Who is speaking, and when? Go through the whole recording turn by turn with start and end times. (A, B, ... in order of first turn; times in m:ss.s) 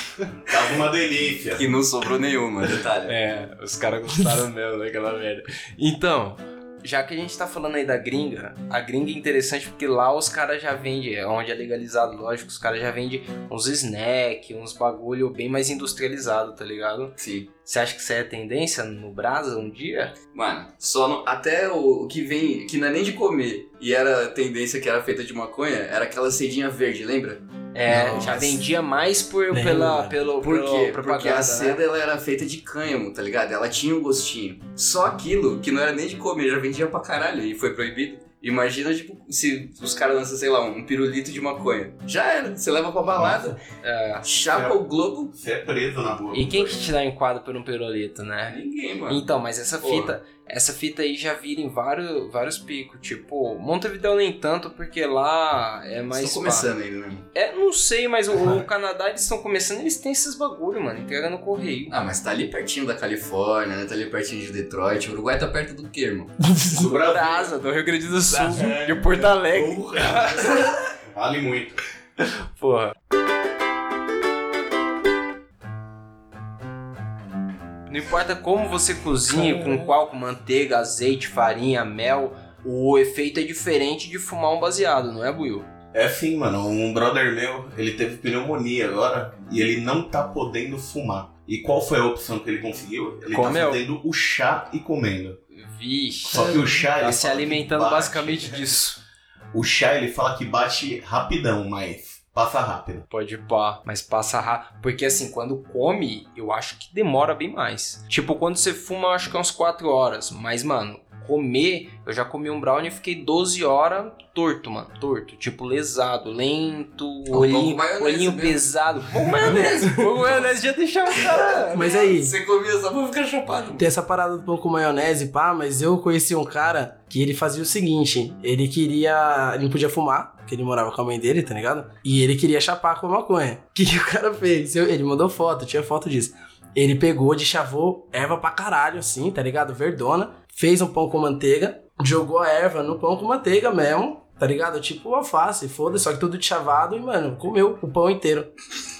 0:00.5-0:01.7 A
0:01.5-0:03.2 B
0:03.1-0:20.2 C
0:17.2-0:17.5 B
0:20.3-0:28.6 B
0:27.7-0:31.8 C
0:27.9-0:28.3 D
0:29.5-0:30.2 D
0:30.4-0:43.6 B
0:43.1-0:43.6 A
0:43.8-0:44.2 C
0:44.2-0:45.3 B
0:44.5-0:44.8 A
0:45.3-0:46.8 A
0:46.3-0:56.7 C
0:48.5-0:49.2 B
0:49.8-0:50.2 B
0:56.1-0:57.3 B
0:57.3-1:02.0 C
1:01.9-1:06.4 B
1:06.5-1:07.0 D
1:06.7-1:07.5 A
1:06.9-1:10.7 C
1:08.4-1:11.8 A
1:12.2-1:13.0 C
1:17.9-1:25.7 C
1:25.9-1:35.4 A
1:33.3-1:33.8 C
1:35.5-1:39.0 C
1:36.3-1:36.9 D
1:36.3-1:38.7 A
1:39.5-1:43.0 A
1:43.1-2:02.0 C
1:57.3-1:58.7 B
1:59.2-2:00.5 B
1:59.5-2:00.1 D
2:01.2-2:03.9 B
2:01.7-2:02.3 D
2:03.8-2:28.5 D